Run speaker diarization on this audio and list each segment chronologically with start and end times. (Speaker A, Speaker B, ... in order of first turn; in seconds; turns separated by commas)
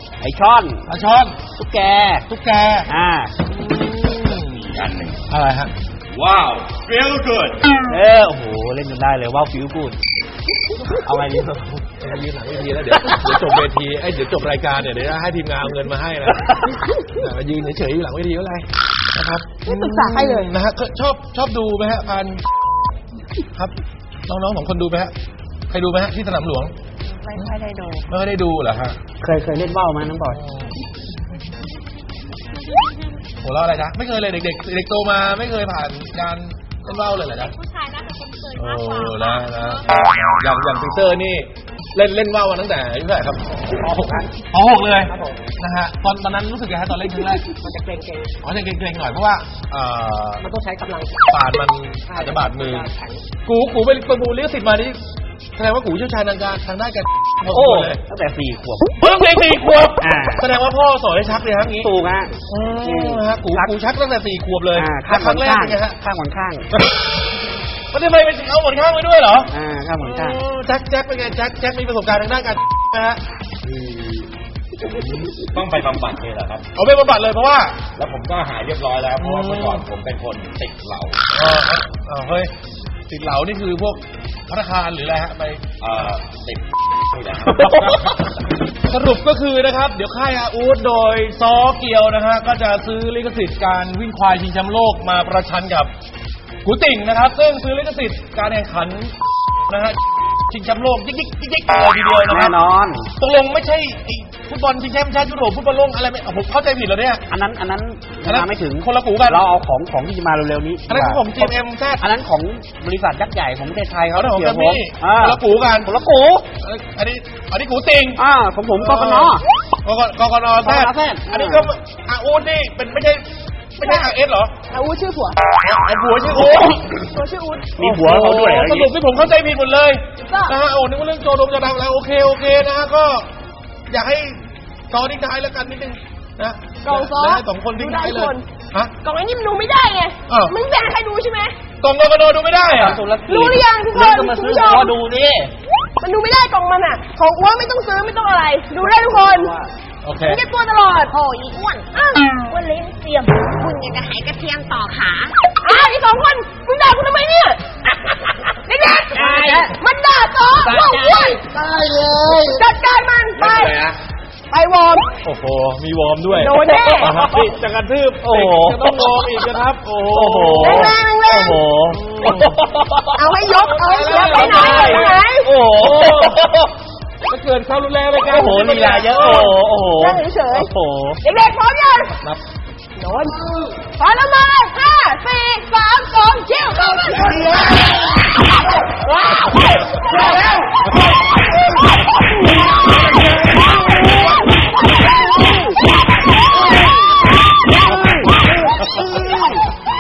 Speaker A: 0.2-0.9, Speaker B: 0.9-1.4, Speaker A: 1.6-2.3, Speaker B: 2.3-2.9, Speaker A: 2.9-3.3, Speaker B: 3.5-4.7, Speaker C: 4.5-5.2, Speaker B: 5.3-5.7, Speaker C: 6.1-7.7, Speaker A: 7.9-10.0, Speaker A: 11.0-11.9, Speaker B: 12.0-22.4, Speaker A: 13.0-13.4, Speaker D: 19.6-20.5, Speaker B: 24.3-25.1, Speaker B: 25.7-26.7, Speaker E: 27.1-28.1, Speaker B: 28.1-29.0, Speaker A: 29.2-30.4, Speaker B: 30.3-30.7, Speaker E: 32.5-33.2, Speaker B: 33.4-37.6, Speaker E: 36.9-39.8, Speaker B: 38.6-47.5, Speaker F: 43.6-44.5, Speaker F: 45.0-45.5, Speaker F: 47.5-48.3, Speaker B: 48.4-50.5, Speaker F: 50.4-51.4, Speaker B: 51.3-52.9, Speaker F: 52.0-53.2, Speaker B: 53.5-55.0, Speaker B: 55.6-58.0, Speaker A: 57.5-58.9, Speaker B: 59.0-61.9, Speaker A: 60.0-60.5, Speaker A: 61.8-63.7, Speaker B: 62.5-66.0, Speaker A: 64.8-66.7, Speaker B: 67.9-73.2, Speaker A: 69.5-70.4, Speaker C: 73.6-74.3, Speaker C: 74.8-76.7, Speaker B: 76.8-77.9, Speaker C: 78.0-81.2, Speaker B: 79.2-79.8, Speaker B: 81.3-82.5, Speaker B: 83.1-85.7, Speaker C: 85.8-88.2, Speaker B: 87.5-88.2, Speaker A: 87.5-88.0, Speaker B: 88.8-95.9, Speaker B: 96.6-99.1, Speaker B: 99.7-100.0, Speaker B: 100.5-102.6, Speaker A: 102.3-103.1, Speaker B: 103.2-107.2, Speaker A: 107.3-116.5, Speaker B: 108.2-109.5, Speaker B: 110.9-112.0, Speaker B: 114.1-115.9, Speaker B: 116.6-118.2, Speaker A: 118.2-119.5, Speaker B: 118.8-123.2, Speaker A: 120.6-121.7, Speaker B: 123.8-124.5, Speaker D: 124.7-125.4, Speaker B: 125.6-126.9, Speaker D: 127.1-127.8, Speaker A: 127.8-128.9, Speaker B: 127.8-133.3, Speaker D: 130.2-130.6, Speaker B: 133.9-138.9, Speaker D: 136.8-138.4, Speaker D: 139.0-141.6, Speaker B: 140.3-140.6, Speaker B: 141.8-143.0, Speaker A: 142.7-145.5, Speaker D: 143.3-144.9, Speaker D: 146.0-149.5, Speaker A: 148.8-149.7, Speaker B: 150.0-150.4, Speaker D: 150.2-151.2, Speaker E: 151.1-151.9, Speaker D: 151.9-152.4, Speaker E: 152.4-155.3, Speaker D: 155.6-157.6, Speaker D: 158.7-161.4, Speaker A: 159.1-159.8, Speaker A: 160.6-162.6, Speaker F: 161.5-162.6, Speaker D: 162.5-163.8, Speaker C: 163.4-164.0, Speaker D: 164.5-165.2, Speaker B: 165.2-171.0, Speaker D: 166.3-167.1, Speaker A: 166.8-167.5, Speaker A: 168.2-169.1, Speaker A: 170.1-173.2, Speaker D: 170.6-171.6, Speaker B: 171.9-172.6, Speaker D: 173.2-175.5, Speaker B: 173.5-175.2, Speaker A: 174.1-176.7, Speaker B: 175.8-176.4, Speaker B: 177.3-179.6, Speaker A: 178.2-181.2, Speaker D: 178.8-180.7, Speaker D: 181.2-182.2, Speaker D: 183.0-194.4, Speaker B: 187.3-187.9, Speaker B: 192.8-194.4, Speaker D: 194.9-195.6, Speaker A: 197.7-199.7, Speaker B: 198.8-199.2